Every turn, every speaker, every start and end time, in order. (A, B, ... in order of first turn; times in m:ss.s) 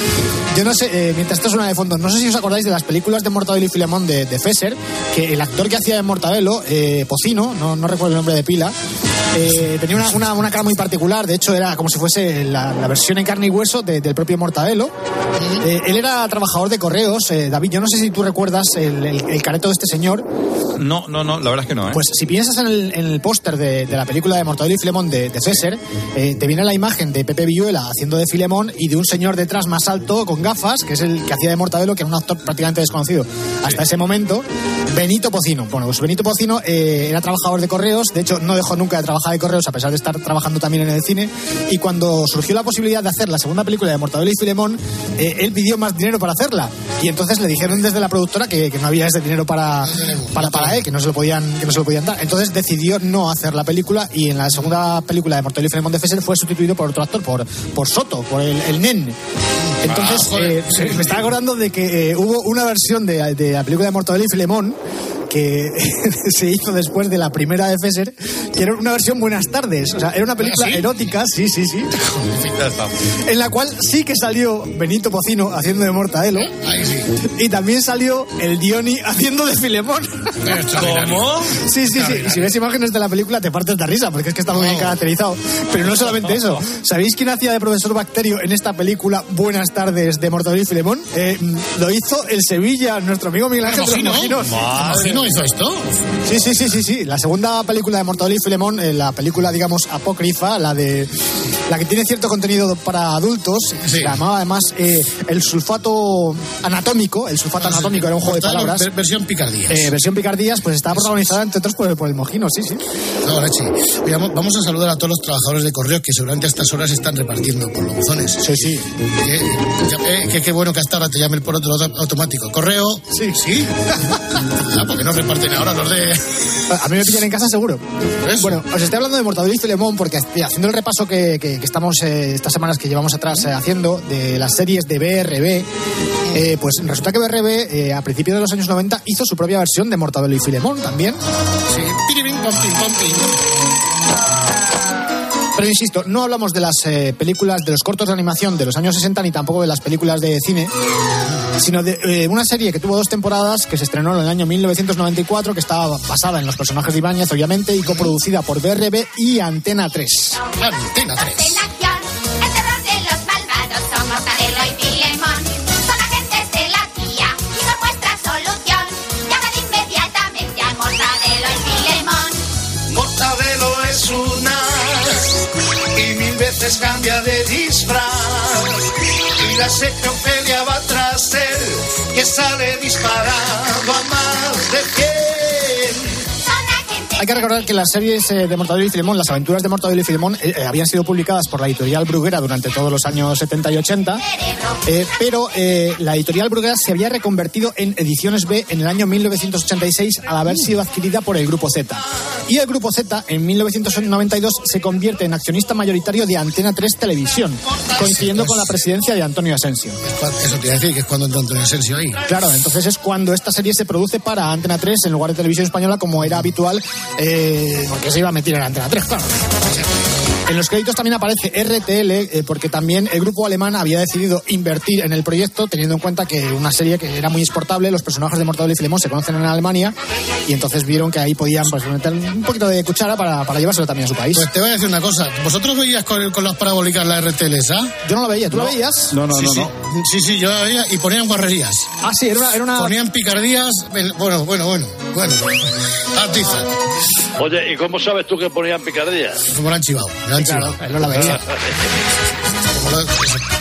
0:00.5-0:08.7 A
0:09.3-0:14.9 A
0:15.6-0:20.2 A
0:20.7-0:22.0 B
0:21.9-0:59.2 A
0:49.8-0:50.8 C
0:59.6-1:01.2 C
0:59.8-1:11.9 A
1:10.4-1:10.9 C
1:12.0-1:12.6 C
1:12.6-1:12.9 B
1:13.2-1:16.5 A
1:16.4-1:17.1 C
1:17.2-1:20.3 A
1:20.4-1:22.5 C
1:20.7-1:21.6 B
1:21.6-1:34.6 A
1:24.5-1:25.0 C
1:33.6-1:36.0 C
1:34.5-1:35.3 B
1:36.2-1:41.1 A
1:41.7-1:48.9 A
1:43.8-1:44.1 C
1:47.6-1:49.9 C
1:49.7-1:52.8 A
1:50.9-1:51.3 C
1:53.2-2:06.6 C
1:58.4-1:58.9 A
2:03.1-2:03.4 A
2:06.7-2:07.8 A
2:08.2-2:08.6 C
2:08.4-2:15.7 A
2:16.3-2:21.2 A
2:21.7-2:23.3 C
2:25.5-2:30.7 A
2:31.6-2:40.4 A
2:37.8-2:38.1 C
2:40.4-2:40.6 D
2:40.6-2:41.6 C
2:41.2-2:52.4 D
2:52.9-2:55.3 E
2:55.9-2:58.9 E
2:59.4-3:06.0 E
3:06.5-3:07.3 D
3:07.2-3:14.2 A
3:14.3-3:14.8 D
3:14.8-3:30.0 A
3:28.0-3:28.7 C
3:30.0-3:32.2 C
3:32.3-3:39.3 A
3:40.5-3:54.5 A
3:54.3-3:57.9 C
3:58.0-3:59.4 A
3:58.5-3:59.7 B
3:59.3-4:01.9 C
4:02.0-4:03.0 A
4:02.7-4:06.7 C
4:07.4-4:09.4 F
4:09.4-4:11.4 C
4:10.4-4:11.4 A
4:12.6-4:13.4 C